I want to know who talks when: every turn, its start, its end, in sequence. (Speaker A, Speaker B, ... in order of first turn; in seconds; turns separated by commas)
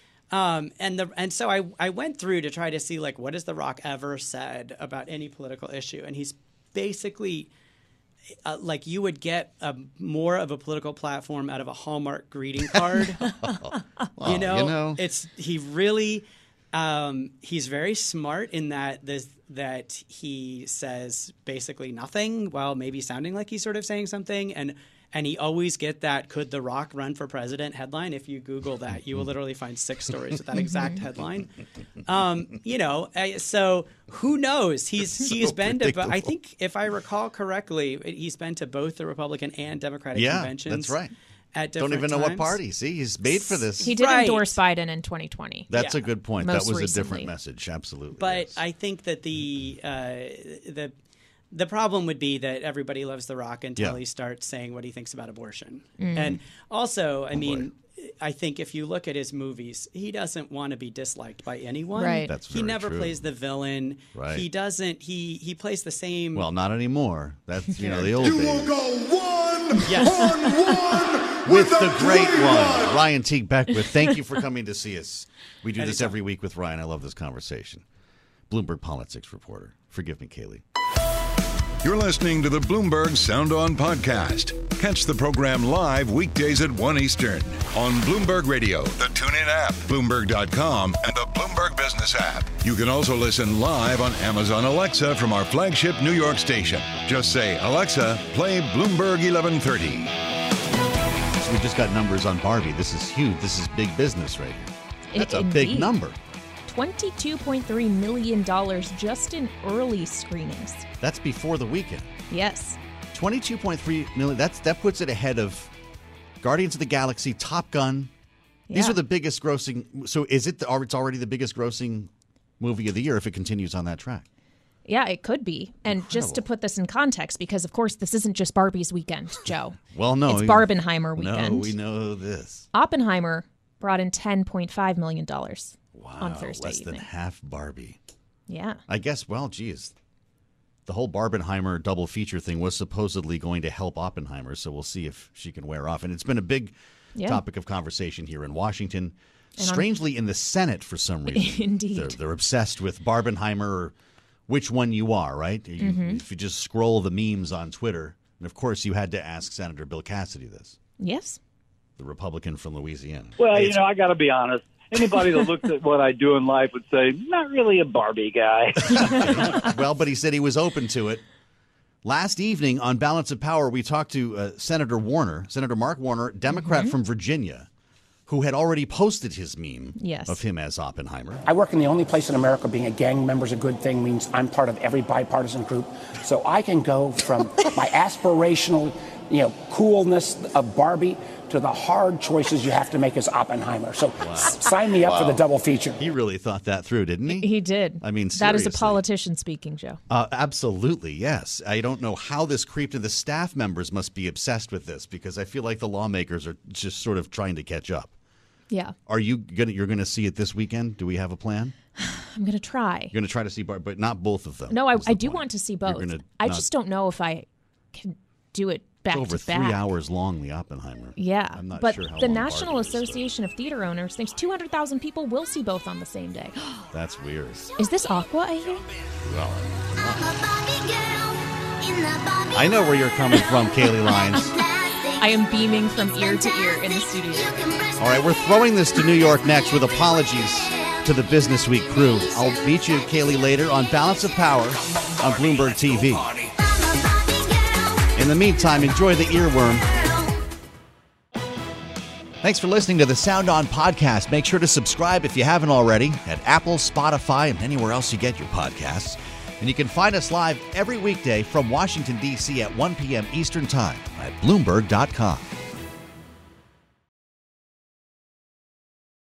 Speaker A: 0.3-7.5, Speaker A: 8.4-13.4, Speaker B: 13.4-15.0, Speaker A: 14.2-31.5, Speaker C: 30.6-31.0, Speaker A: 32.0-41.0, Speaker B: 35.2-36.3, Speaker B: 40.1-41.1, Speaker A: 41.5-42.6, Speaker B: 41.8-43.9, Speaker C: 43.4-45.7, Speaker A: 43.8-44.6, Speaker B: 45.7-48.6, Speaker A: 45.7-46.0, Speaker C: 46.4-47.3, Speaker A: 48.2-50.9, Speaker A: 51.5-66.5, Speaker C: 56.0-56.4, Speaker B: 57.3-57.7, Speaker C: 62.0-62.3, Speaker B: 62.3-63.3, Speaker B: 64.1-64.5, Speaker B: 66.3-68.9, Speaker A: 69.8-70.3, Speaker C: 70.2-70.7, Speaker B: 71.4-77.8, Speaker A: 75.8-76.2, Speaker B: 78.5-80.6, Speaker D: 81.8-100.1, Speaker B: 101.4-106.2, Speaker C: 105.1-105.9, Speaker C: 106.7-110.9, Speaker B: 111.0-112.1, Speaker C: 112.3-112.8, Speaker B: 113.1-115.7, Speaker B: 116.4-118.1, Speaker C: 118.7-119.0, Speaker B: 118.7-124.3, Speaker C: 124.9-131.8, Speaker B: 125.9-126.4, Speaker B: 129.9-132.7, Speaker C: 132.7-137.1, Speaker B: 135.9-138.0, Speaker C: 138.5-138.8, Speaker B: 138.9-139.9, Speaker B: 140.9-153.9, Speaker C: 147.2-147.4, Speaker C: 149.6-149.9, Speaker C: 151.3-152.2, Speaker B: 154.5-160.8, Speaker C: 155.8-156.2, Speaker C: 161.0-161.4, Speaker B: 162.0-163.8, Speaker E: 163.4-169.5, Speaker B: 168.9-171.2, Speaker B: 172.0-177.7, Speaker C: 176.5-176.9, Speaker B: 178.3-181.4, Speaker C: 180.0-180.4, Speaker F: 181.5-196.0, Speaker B: 194.2-195.4, Speaker B: 196.0-199.0, Speaker C: 197.3-200.0, Speaker B: 200.1-208.1, Speaker C: 208.7-208.9, Speaker B: 209.1-211.7, Speaker C: 212.0-213.1, Speaker B: 213.1-216.7, Speaker C: 214.7-219.8, Speaker B: 219.1-223.3, Speaker C: 221.2-226.8, Speaker B: 226.9-227.7, Speaker C: 227.8-228.8, Speaker B: 229.2-230.5, Speaker B: 232.5-234.7, Speaker C: 235.1-237.8, Speaker B: 238.0-246.3, Speaker B: 248.1-250.0, Speaker B: 252.4-265.5